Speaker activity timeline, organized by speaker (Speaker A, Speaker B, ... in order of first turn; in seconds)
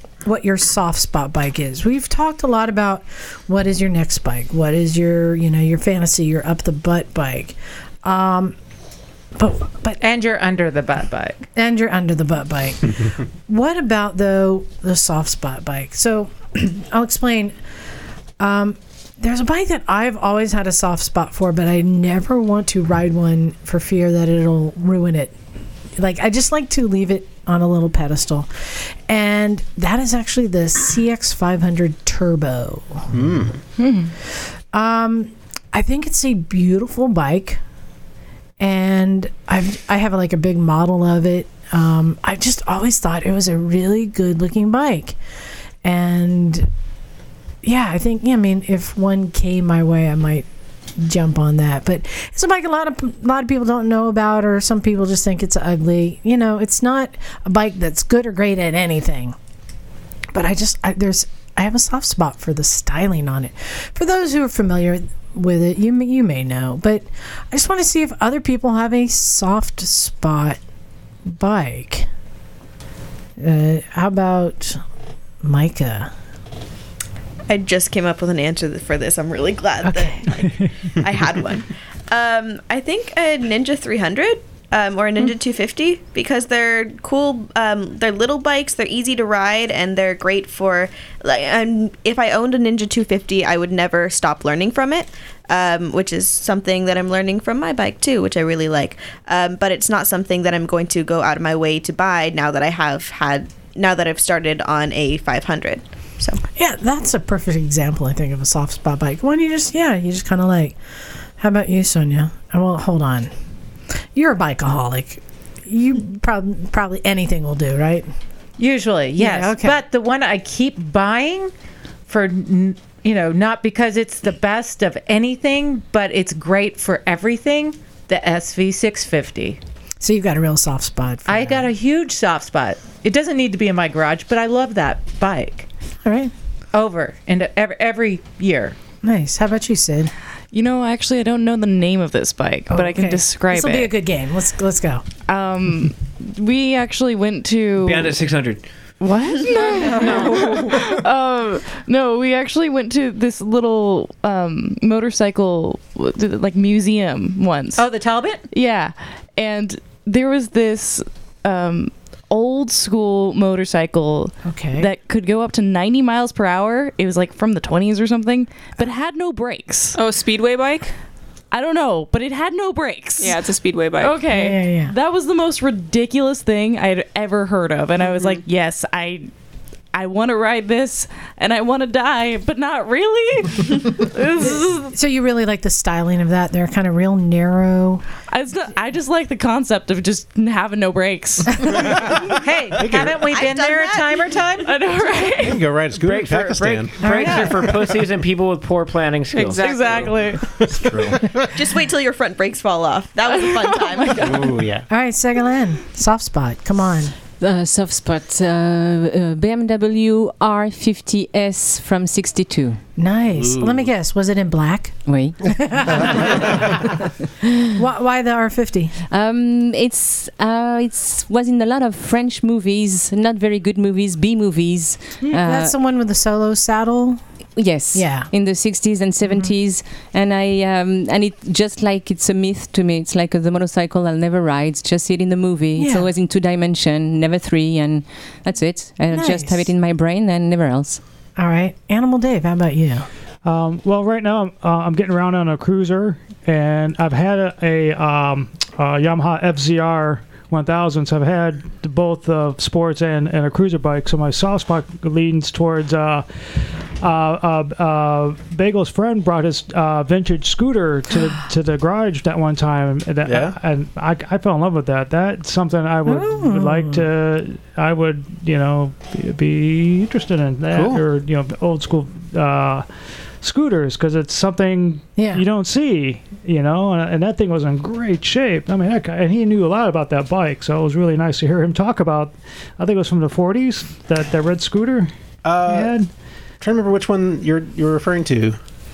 Speaker A: 0.2-8.6, 9.4-10.0, 11.6-17.6, 18.4-25.3, 26.0-33.1, 34.7-37.6, 38.6-45.2, 45.8-46.7, 47.6-50.5, 51.0-59.4, 60.3-70.6, 71.3-72.1, 73.4-74.8, 75.4-76.1, 79.8-80.5, 106.5-110.8, 111.4-113.3, 114.1-118.1, 119.2-119.8, 130.0-131.7, 136.1-136.3, 139.0-140.1, 142.7-145.0, 164.4-164.9, 174.3-174.9, 184.4-188.1, 197.0-197.6, 204.9-207.1, 213.0-216.9, 217.7-218.9, 225.2-227.2, 227.9-228.3, 235.8-236.1, 239.1-239.7, 241.4-243.1, 266.1-267.1, 275.1-275.4
Speaker B: 10.0-11.4, 118.6-121.5, 122.1-129.6, 131.3-135.7, 136.7-138.8, 149.8-150.6, 157.8-158.4, 192.3-194.7, 197.1-197.5
Speaker C: 33.1-33.5, 192.8-193.2, 195.4-197.0, 200.7-201.2, 263.2-263.6, 285.4-285.9, 286.6-288.6
Speaker D: 33.8-34.1, 140.5-143.9, 145.3-148.2, 149.0-157.9, 158.5-170.0, 171.5-173.4, 174.0-179.3, 179.9-184.9, 188.3-192.0, 194.6-195.6, 199.5-200.5, 203.2-204.6
Speaker E: 77.5-106.4, 193.3-194.4, 201.5-204.4
Speaker F: 147.8-148.6, 196.0-200.0, 204.2-204.8
Speaker G: 169.9-170.9, 173.2-174.2, 178.1-178.4, 199.3-200.2
Speaker H: 207.4-212.8, 215.1-215.6, 219.1-225.7, 227.6-241.0
Speaker I: 243.4-256.2, 257.0-272.8, 273.4-285.1, 285.7-286.1